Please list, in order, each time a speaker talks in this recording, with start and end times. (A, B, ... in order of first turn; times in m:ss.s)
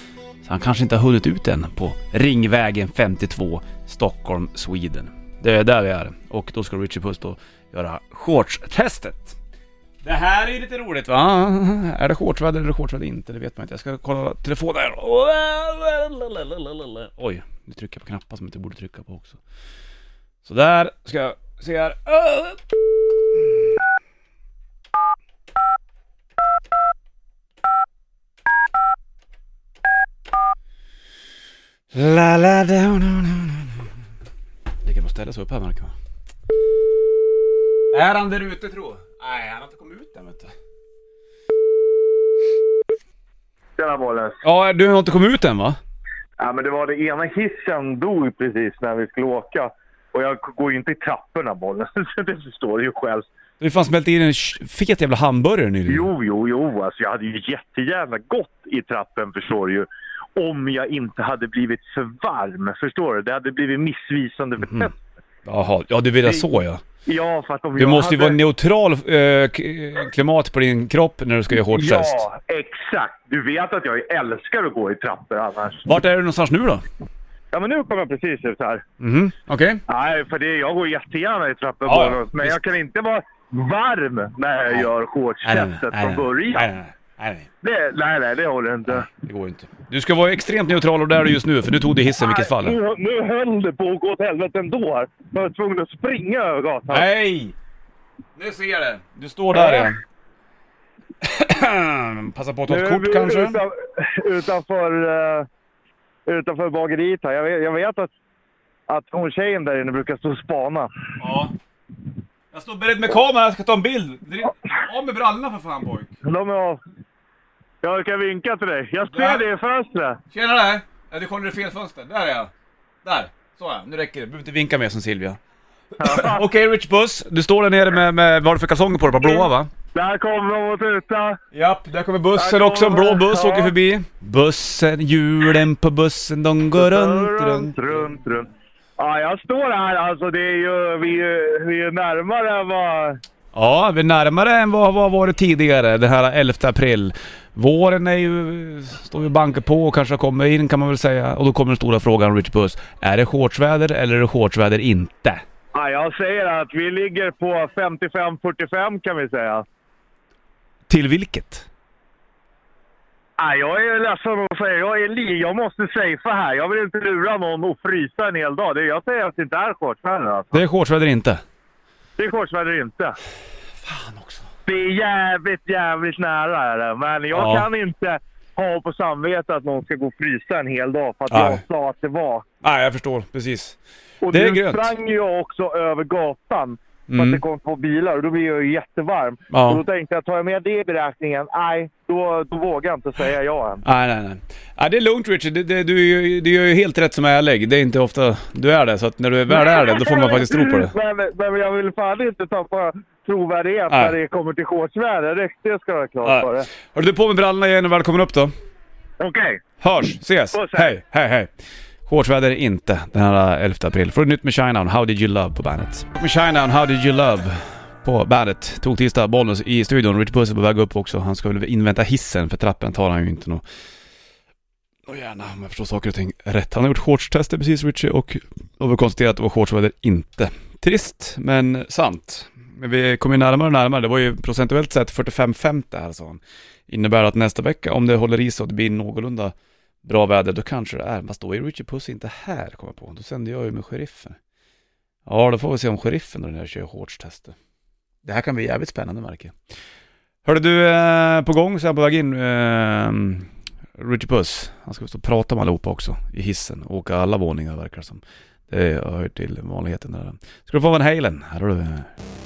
0:00.4-0:09.4 A
0:10.0-0:19.4 A
0:20.4-0:22.6 A
0:23.3-0:23.6 A
0:31.9-0:33.8 A
0:34.8-0:35.9 A
0:37.9-0:40.5 A
0:43.8-0:44.4 B
0:44.4-0:45.8 A
0:46.4-0:53.3 B
0:53.6-0:56.1 A
0:55.9-1:04.9 B
1:04.6-1:04.9 A
1:05.4-1:06.8 A
1:07.0-1:08.4 B
1:07.8-1:12.2 A
1:11.6-1:15.9 B
1:15.8-1:16.8 A
1:17.5-1:18.8 B
1:19.0-1:19.8 A
1:19.9-1:26.7 B
1:21.8-1:22.6 A
1:25.4-1:27.4 A
1:27.6-1:29.0 B
1:28.9-1:32.8 A
1:32.2-1:37.1 B
1:36.9-1:37.5 A
1:38.4-1:40.0 A
1:39.5-1:39.9 B
1:41.2-1:43.6 A
1:42.7-1:45.5 B
1:46.2-1:48.1 B
1:48.9-1:50.9 B
1:51.2-1:51.5 A
1:52.5-1:56.1 A
1:56.2-1:56.8 B
1:57.8-2:00.2 B
1:59.1-1:59.4 A
2:00.3-2:02.5 A
2:03.0-2:05.4 A
2:06.0-2:09.7 A
2:06.0-2:06.4 B
2:09.2-2:11.4 B
2:11.5-2:18.2 A
2:12.3-2:13.7 B
2:16.8-2:23.2 B
2:23.5-2:35.4 A
2:35.7-2:39.6 B
2:40.9-2:41.6 A
2:43.4-2:50.6 B
2:50.5-2:51.4 A
2:52.2-2:53.2 B
2:53.8-2:54.4 A
2:54.6-3:02.4 B
2:57.3-2:57.6 A
3:01.3-3:01.6 A
3:02.6-3:03.8 A
3:04.2-3:13.8 B
3:04.3-3:04.9 A
3:07.1-3:07.4 A
3:09.5-3:09.8 A
3:13.8-3:20.9 A
3:19.5-3:26.7 B
3:26.2-3:28.5 A
3:29.2-3:29.6 B
3:29.8-3:31.5 A
3:30.5-3:30.9 B
3:32.1-3:43.6 A
3:45.1-4:04.4 A
4:05.2-4:07.5 A
4:08.2-4:09.5 A
4:10.4-4:22.1 A